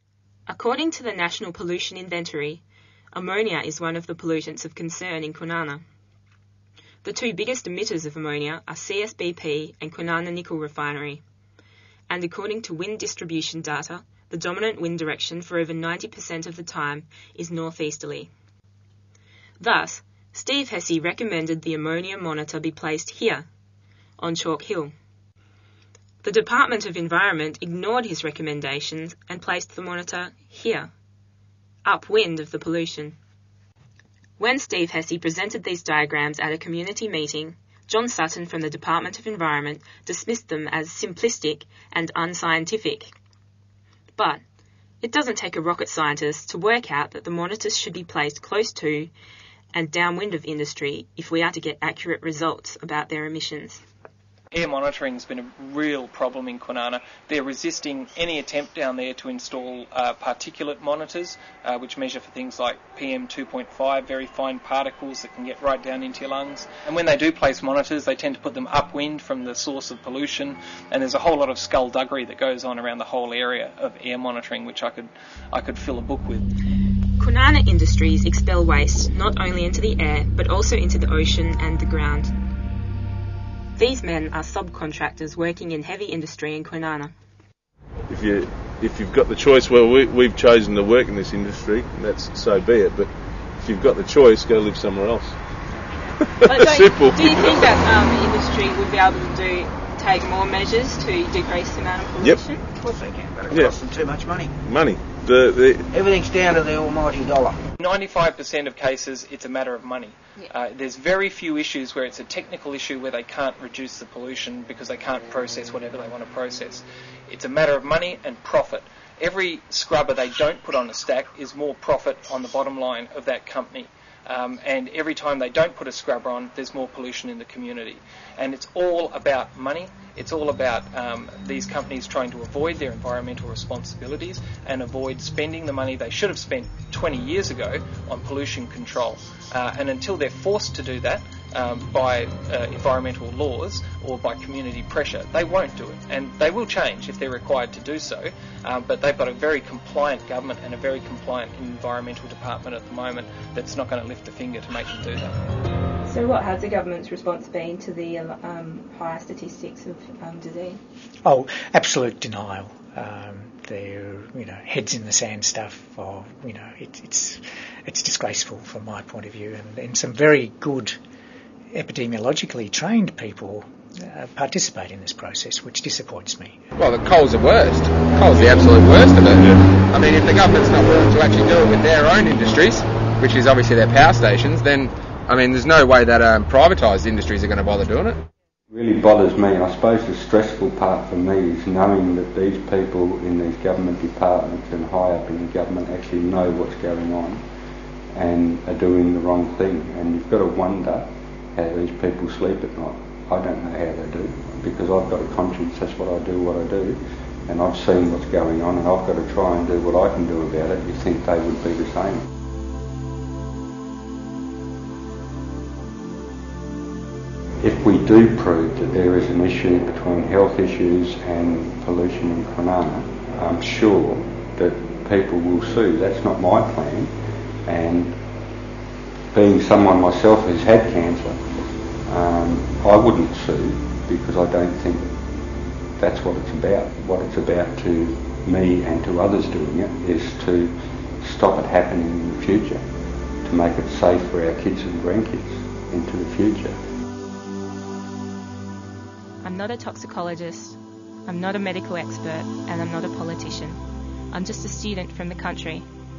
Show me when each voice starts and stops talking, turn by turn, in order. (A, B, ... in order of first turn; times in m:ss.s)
0:00.5-0:02.6 A
0:03.1-0:05.8 A
0:07.0-0:11.2 A
0:12.1-0:18.3 A
0:19.6-0:23.4 A
0:24.2-0:24.9 A
0:26.2-0:30.9 A
0:31.8-0:33.2 A
0:34.4-0:43.1 A
0:44.2-0:44.4 A
0:45.0-0:49.1 A
0:49.7-0:53.8 A
0:54.5-1:16.4 B
1:17.2-1:22.3 A
1:23.8-1:27.1 A
1:28.1-1:33.1 C
1:33.6-1:35.4 C
1:36.2-1:37.6 C
1:36.4-1:42.6 A
1:42.8-1:44.5 D
1:43.5-1:43.8 C
1:44.6-1:45.9 C
1:45.9-1:47.6 D
1:47.8-2:35.4 B
2:36.0-2:40.8 A
2:41.2-2:50.9 E
2:51.7-2:56.6 E
2:56.8-3:08.2 F
3:08.7-3:17.4 G
3:18.1-3:32.3 G
3:37.6-3:47.1 G
3:47.6-3:48.2 G
3:49.3-3:51.4 G
3:52.0-3:55.1 G
3:56.0-4:02.8 G
4:03.4-4:06.8 G
4:09.4-4:13.8 A
4:14.3-4:15.9 A